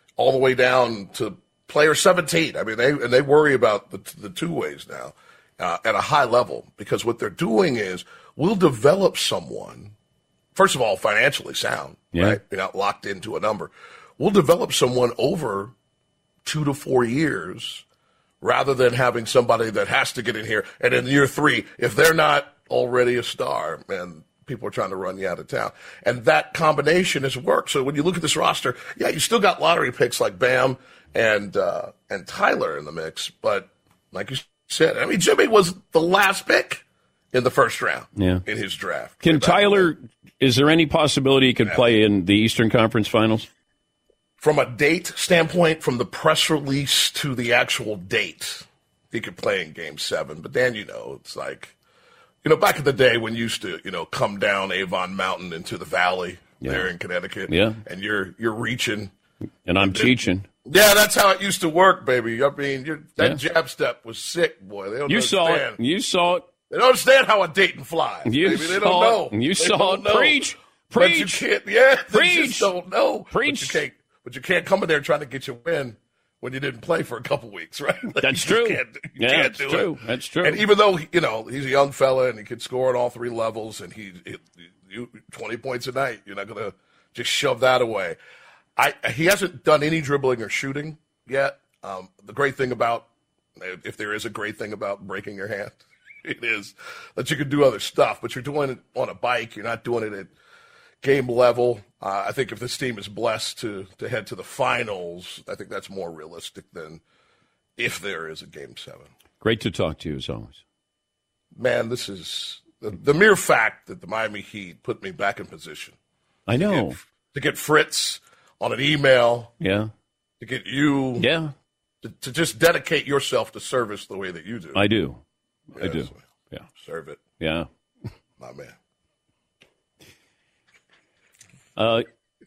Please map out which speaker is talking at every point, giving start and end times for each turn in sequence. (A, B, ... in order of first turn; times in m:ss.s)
0:00.2-0:09.9 A
0:10.6-0:15.7 A
0:12.1-0:12.4 B
0:16.4-0:17.8 A
0:18.4-0:36.8 A
0:37.3-0:39.9 A
0:38.2-0:38.4 B
0:39.2-0:43.5 B
0:44.4-0:51.7 A
0:52.4-0:59.1 A
0:56.6-0:56.9 B
0:57.5-0:57.8 B
0:59.7-1:00.4 B
0:59.8-1:00.1 A
1:00.7-1:05.8 A
1:05.1-1:06.5 B
1:06.7-1:19.9 A
1:08.2-1:11.4 B
1:12.1-1:12.7 B
1:13.3-1:13.8 B
1:18.2-1:20.6 B
1:20.4-1:28.2 A
1:28.8-1:33.1 A
1:33.6-1:40.3 A
1:41.0-1:47.0 A
1:47.8-1:49.1 A
1:49.4-1:50.6 B
1:51.6-1:56.0 A
1:56.5-1:57.0 B
1:56.6-1:59.5 A
1:59.6-1:59.9 B
2:00.4-2:01.3 A
2:01.2-2:01.5 B
2:02.0-2:04.8 A
2:04.8-2:05.2 B
2:05.8-2:06.7 B
2:05.8-2:06.2 A
2:06.8-2:07.2 A
2:07.4-2:07.7 B
2:08.4-2:08.7 A
2:11.8-2:12.0 B